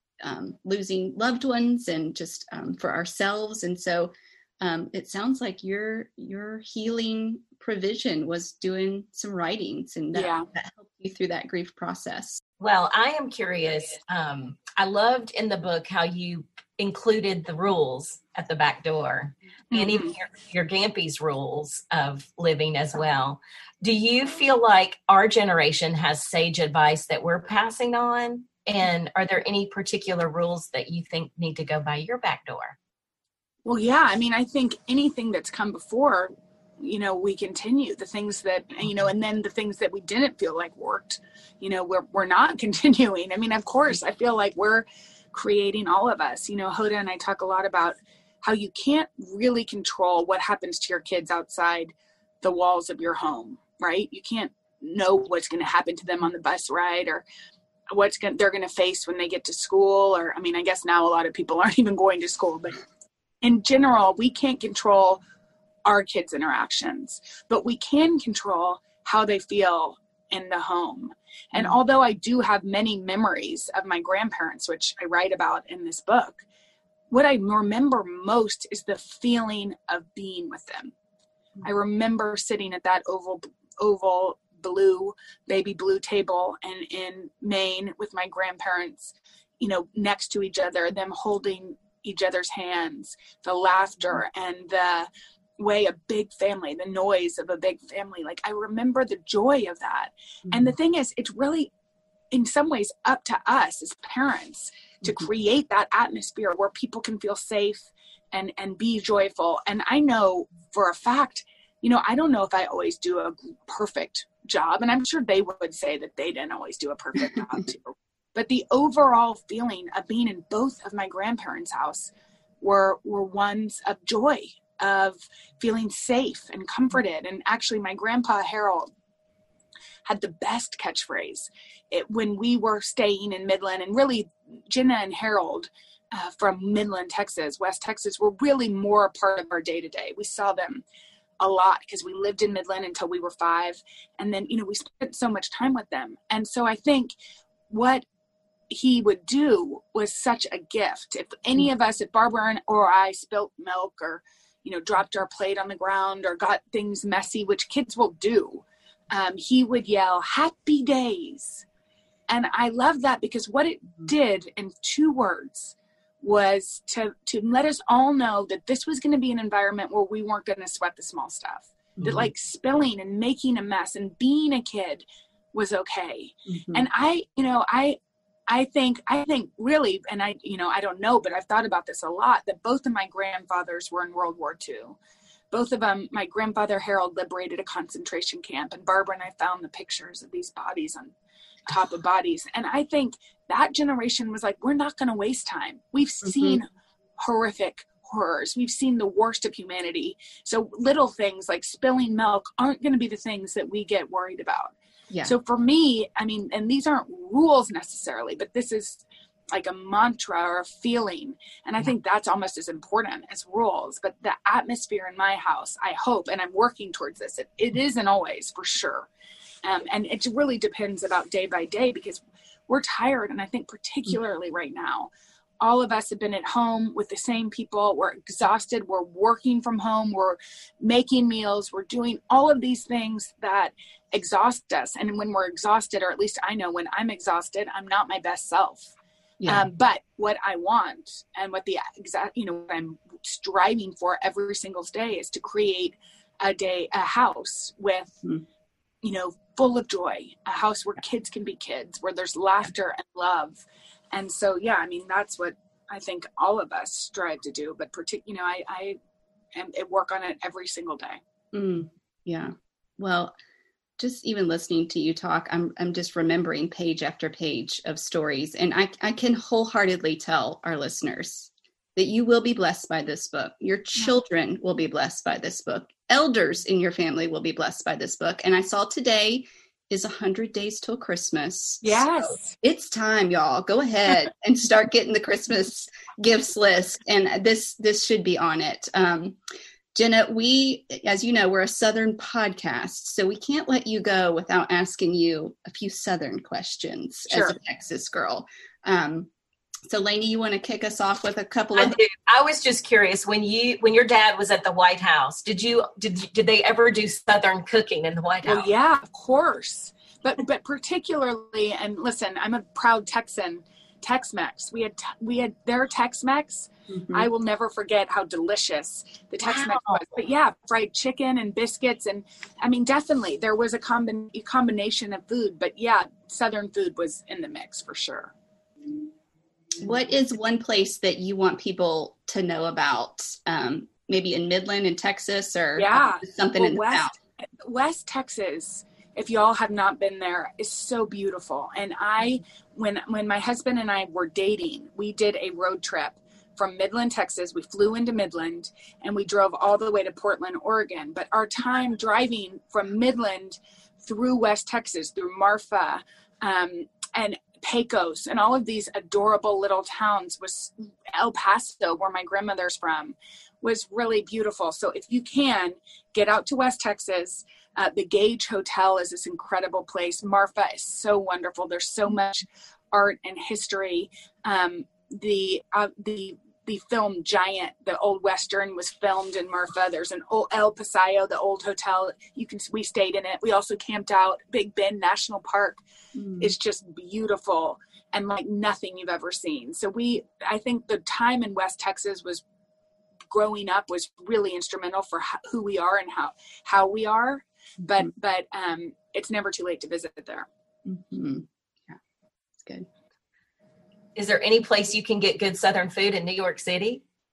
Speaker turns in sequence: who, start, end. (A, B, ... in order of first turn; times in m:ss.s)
0:00.2-0:12.4 A
0:10.1-0:10.5 B
0:12.6-0:32.8 C
0:19.7-0:20.1 B
0:33.6-0:57.2 B
0:57.9-1:02.8 B
1:03.4-1:05.2 B
1:05.8-1:16.4 B
1:17.1-1:20.9 B
1:21.6-1:41.7 B
1:40.5-1:40.7 A
1:42.3-2:08.9 B
2:10.0-2:20.8 B
2:21.4-2:27.1 B
2:27.7-2:28.0 B
2:28.7-2:41.6 B
2:42.3-3:05.0 B
2:52.0-2:52.3 A
2:56.5-2:56.8 A
3:05.5-3:11.1 B
3:11.7-3:16.7 B
3:16.2-3:16.6 A
3:17.2-3:39.1 B
3:39.6-3:58.9 B
3:59.4-3:59.7 A
3:59.4-4:08.2 B
4:09.0-4:19.0 B
4:19.5-4:21.2 B
4:21.5-4:23.3 A
4:24.0-4:49.4 A
4:41.8-4:42.5 B
4:49.9-4:59.3 A
4:57.3-4:57.6 B
4:59.9-5:02.0 A
5:01.7-5:08.7 C
5:08.4-5:28.3 B
5:16.9-5:17.3 A
5:19.5-5:19.9 C
5:29.8-5:37.1 A
5:35.8-6:25.8 B
6:26.2-6:26.5 A
6:26.4-6:32.4 B
6:33.3-6:40.5 B
6:40.8-6:42.0 A
6:42.6-6:42.9 A
6:44.1-6:47.0 C